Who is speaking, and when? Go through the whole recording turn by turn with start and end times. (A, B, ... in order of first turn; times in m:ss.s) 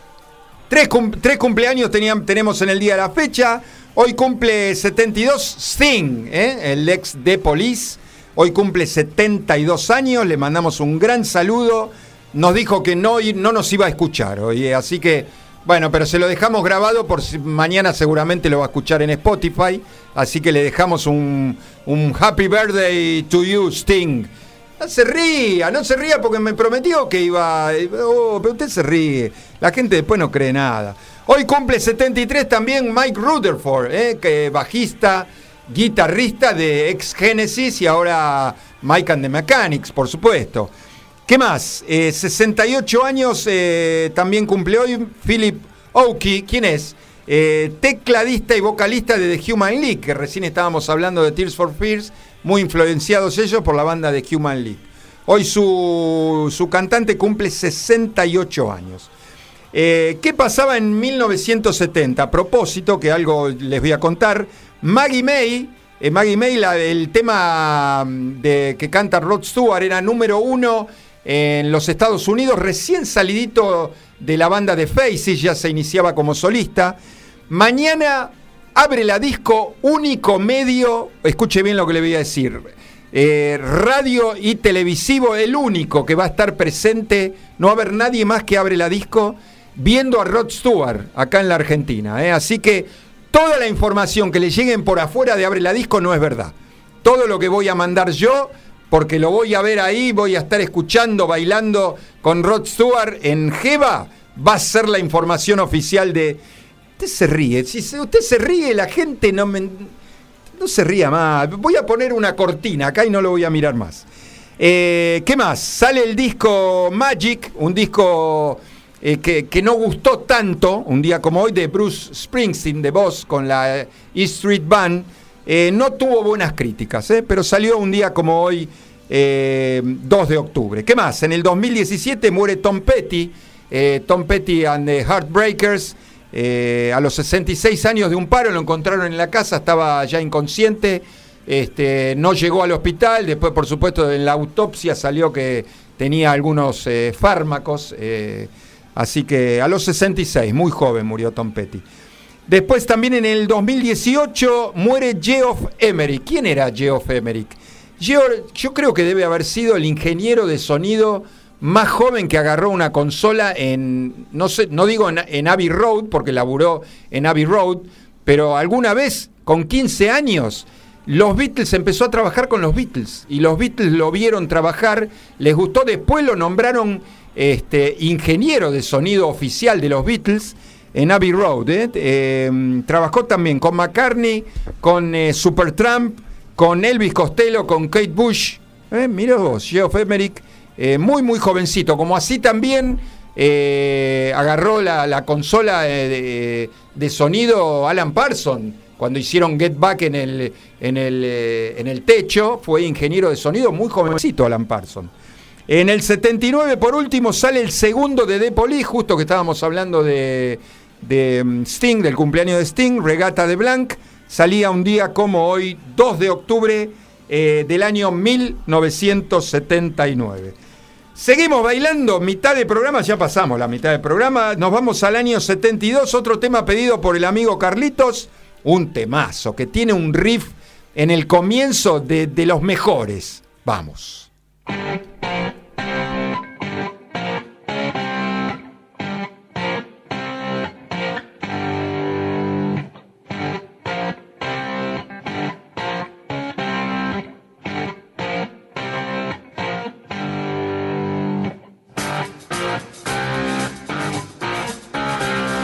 0:00.7-0:40.7 A
0:41.2-0:59.1 A
0:59.7-1:17.0 A
1:17.5-1:46.4 A
1:47.0-1:49.9 A
1:50.6-1:54.0 A
1:54.6-2:31.8 A
2:32.5-3:25.1 A
3:25.7-3:40.5 A
3:41.1-3:54.3 A